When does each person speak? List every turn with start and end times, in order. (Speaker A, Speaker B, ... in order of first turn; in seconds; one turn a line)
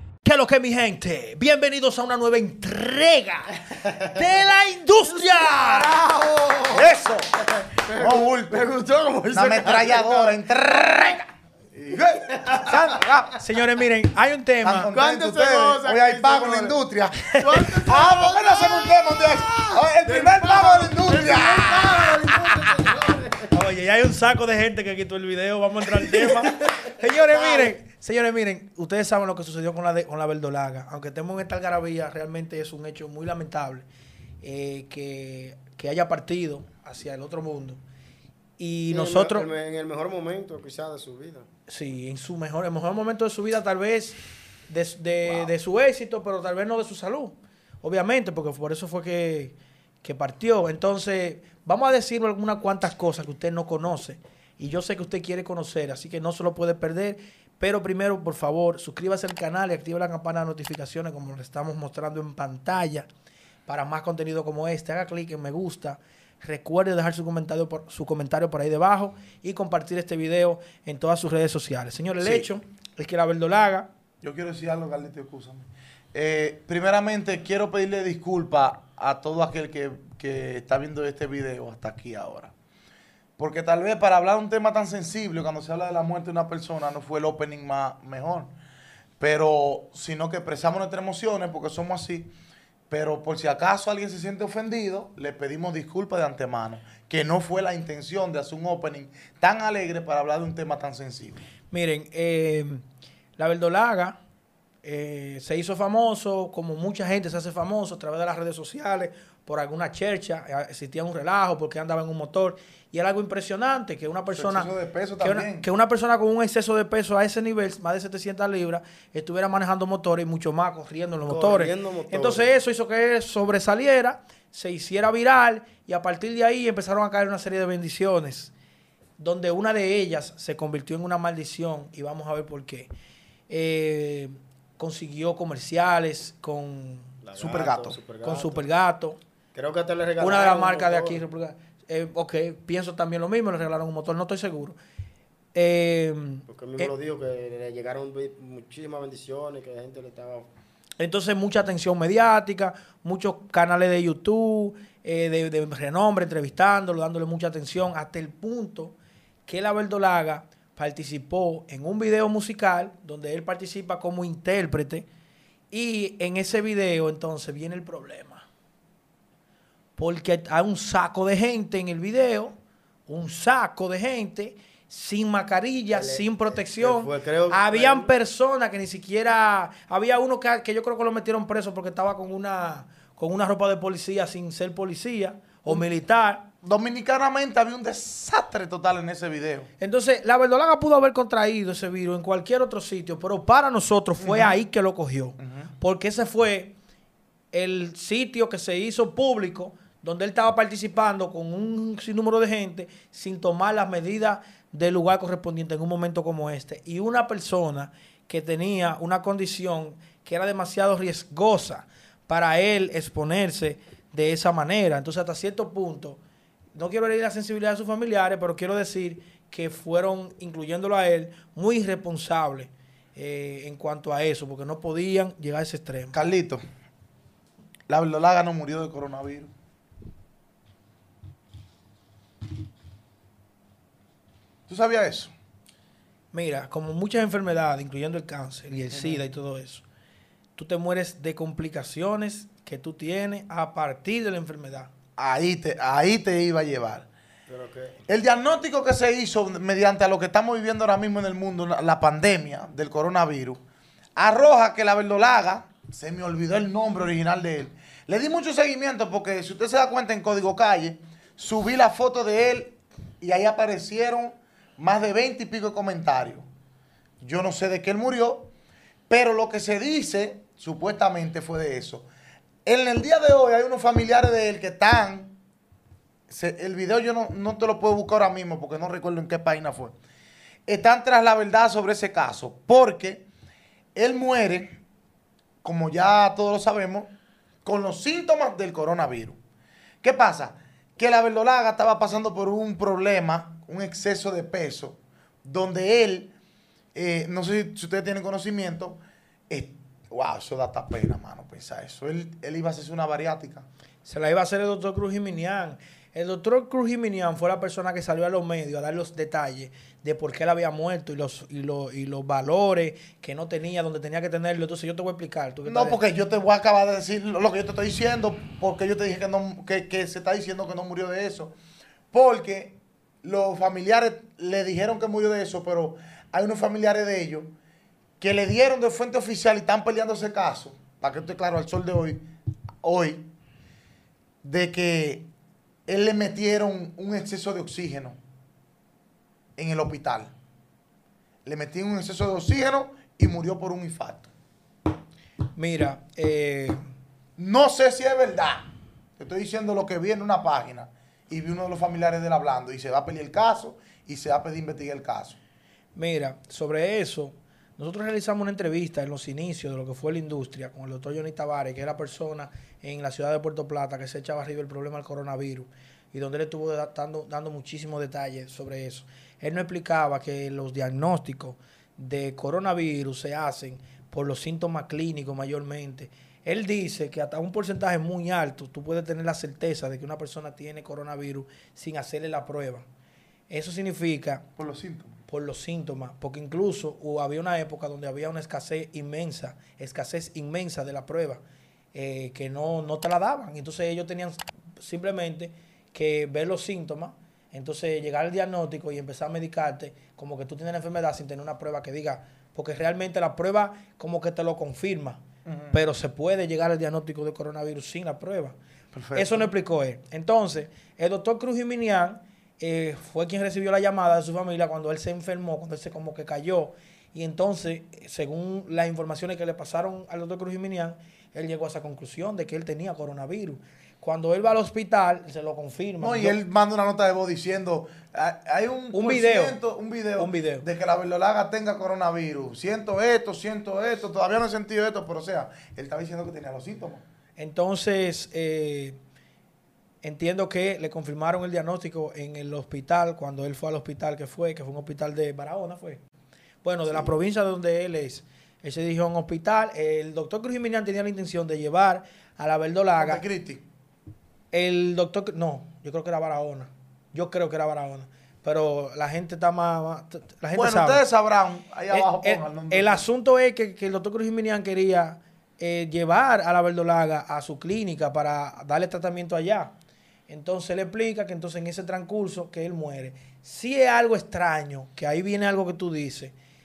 Speaker A: 0.2-6.0
Speaker B: 5.1-10.4
Speaker C: 6.7-7.3
Speaker C: 8.0-8.7
Speaker C: 9.3-13.4
Speaker B: 12.0-12.8
Speaker A: 12.7-14.9
Speaker C: 14.6-22.7
Speaker B: 14.9-16.8
Speaker A: 17.3-17.7
Speaker B: 17.4-23.5
Speaker A: 23.5-33.9
Speaker B: 26.1-26.7
Speaker B: 27.3-27.7
Speaker A: 34.4-37.8
Speaker A: 38.6-39.5
Speaker B: 38.9-41.5
Speaker A: 41.7-44.2
Speaker A: 44.7-63.1
Speaker A: 63.7-73.9
Speaker C: 72.2-72.5
Speaker C: 74.2-82.5
Speaker C: 83.4-88.5
Speaker C: 89.2-92.3
Speaker C: 92.9-101.4
Speaker A: 101.7-102.8
Speaker A: 103.4-104.2
Speaker A: 104.8-114.7
Speaker C: 114.3-115.7
Speaker A: 115.2-128.5
Speaker B: 121.3-122.5
Speaker A: 129.2-132.9
Speaker A: 133.5-137.1
Speaker B: 137.2-138.7
Speaker C: 137.4-138.0
Speaker A: 138.2-139.2
Speaker B: 139.5-141.2
Speaker A: 140.2-144.8
Speaker A: 145.5-146.9
Speaker B: 146.5-150.5
Speaker A: 151.0-158.9
Speaker A: 159.5-165.1
Speaker A: 165.7-168.4
Speaker A: 170.0-172.5
Speaker A: 173.1-186.5
Speaker B: 175.9-178.1
Speaker C: 186.6-189.7
Speaker A: 189.8-196.8
Speaker C: 194.2-194.6
Speaker C: 195.4-195.7
Speaker A: 197.5-216.2
Speaker A: 216.8-226.2
Speaker C: 226.1-226.6
Speaker C: 227.9-229.5
Speaker C: 234.7-235.3
Speaker A: 236.3-239.8
Speaker C: 238.9-239.2
Speaker A: 240.6-244.9
Speaker C: 245.2-247.1
Speaker B: 247.5-248.0
Speaker C: 248.1-253.6
Speaker C: 254.2-266.5
Speaker C: 267.2-268.5
Speaker C: 269.1-272.1
Speaker C: 272.6-275.4
Speaker C: 276.3-280.0
Speaker C: 280.7-283.3
Speaker C: 283.9-284.8
Speaker C: 285.6-287.1
Speaker C: 287.6-289.4
Speaker C: 290.0-296.3
Speaker C: 296.9-303.7
Speaker A: 304.1-316.0
Speaker C: 315.7-321.6
Speaker C: 322.1-327.5
Speaker C: 328.2-332.2
Speaker C: 332.8-333.3
Speaker C: 334.4-335.3
Speaker C: 335.9-338.2
Speaker C: 339.6-340.3
Speaker C: 341.5-344.3
Speaker A: 345.6-346.8
Speaker C: 347.4-348.7
Speaker C: 349.2-355.4
Speaker A: 355.9-382.9
Speaker A: 383.5-384.4
Speaker C: 384.6-385.2
Speaker A: 385.3-391.4
Speaker A: 391.9-408.6
Speaker C: 405.4-405.8
Speaker C: 408.9-409.5
Speaker A: 409.1-426.4
Speaker C: 426.0-437.0
Speaker A: 428.9-429.6
Speaker A: 430.2-430.6
Speaker A: 437.4-439.0
Speaker A: 440.0-446.0
Speaker A: 446.6-453.2
Speaker C: 446.9-447.1
Speaker C: 453.0-453.6
Speaker A: 454.5-461.0
Speaker C: 460.5-463.0
Speaker A: 461.9-469.7
Speaker A: 470.3-476.3